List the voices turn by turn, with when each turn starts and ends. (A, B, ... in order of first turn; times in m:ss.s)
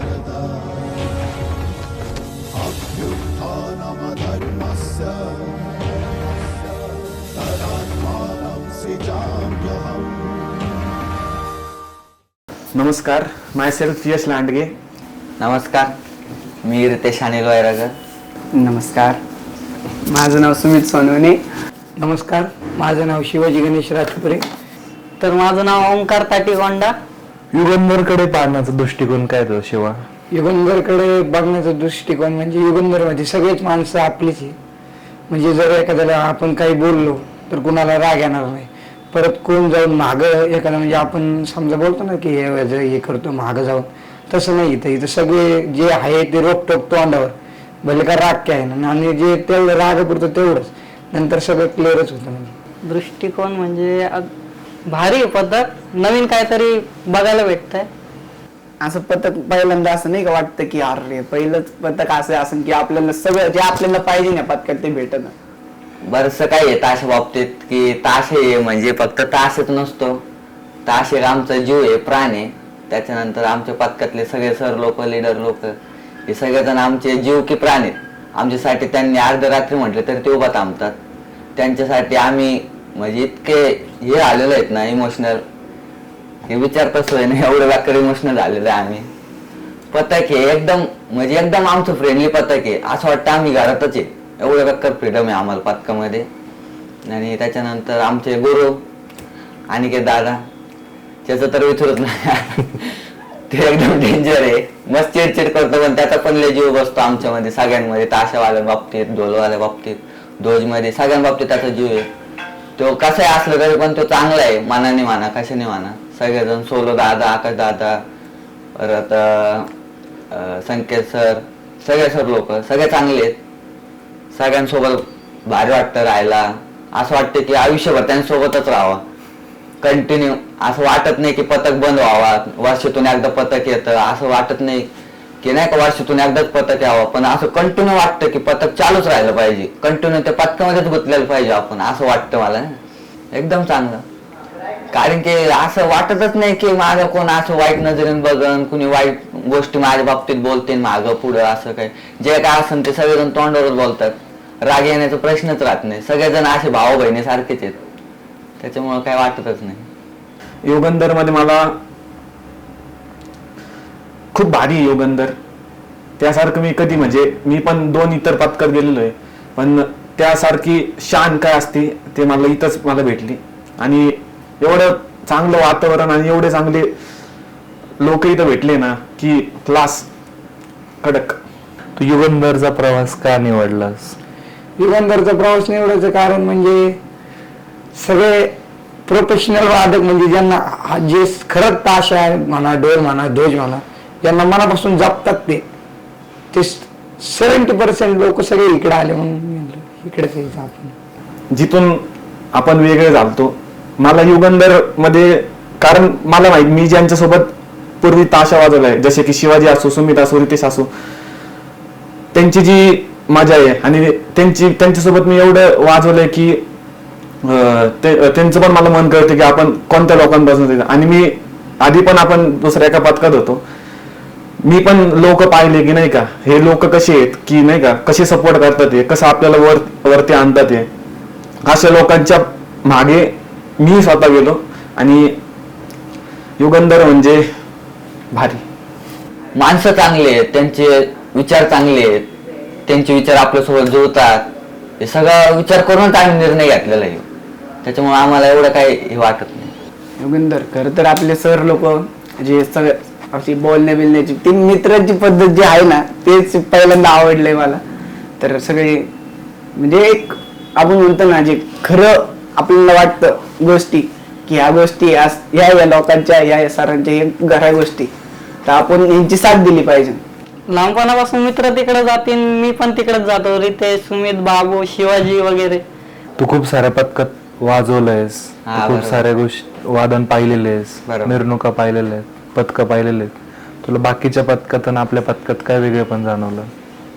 0:12.8-0:14.8 A
0:15.4-0:15.9 B
0:16.6-0:17.9 B
0:18.6-0:19.2 C
0:20.1-0:21.4 C
0:22.0-0:24.4 D
0:25.2-0:26.9 E
0:27.5-0:30.0 F
0:30.3-0:34.6 D
0:35.3-0:52.5 D
0:52.9-0:54.3 E
0:54.9-0:57.9 E
0:58.8-1:05.4 C
1:06.0-1:10.2 B
1:10.9-1:15.7 B
1:16.3-1:21.0 B
1:21.6-1:25.4 B
1:26.5-1:29.1 B
1:29.9-1:36.3 B
1:37.1-1:38.8 B
1:39.7-1:40.4 B
1:41.2-1:43.0 B
1:43.5-1:52.1 B
1:52.8-1:58.0 B
1:58.8-1:59.7 B
2:00.3-2:03.4 B
2:04.3-2:09.0 B
2:09.8-2:14.9 B
2:15.4-2:22.8 B
2:23.3-2:24.0 B
2:24.9-2:37.8 B
2:38.6-2:39.9 B
2:40.6-2:41.8 A
2:44.3-2:45.4 A
2:46.2-2:56.9 A
2:58.0-3:00.1 A
3:01.0-3:01.4 A
3:02.0-3:04.2 F
3:04.8-3:06.8 D
3:08.0-3:08.5 D
3:09.1-3:15.6 D
3:17.4-3:20.9 D
3:21.5-3:30.9 A
3:32.3-3:36.6 A
3:37.4-3:43.6 A
3:44.6-3:50.9 A
3:51.7-3:55.4 A
3:56.6-3:57.4 A
3:58.3-3:58.6 A
3:59.5-4:02.3 B
4:02.9-4:04.4 B
4:05.0-4:07.2 B
4:07.8-4:09.7 B
4:10.2-4:17.8 C
4:18.4-4:19.1 C
4:19.8-4:28.1 C
4:28.6-4:30.2 C
4:30.8-4:35.8 E
4:36.4-4:46.7 F
4:38.7-4:39.2 B
4:41.1-4:41.4 B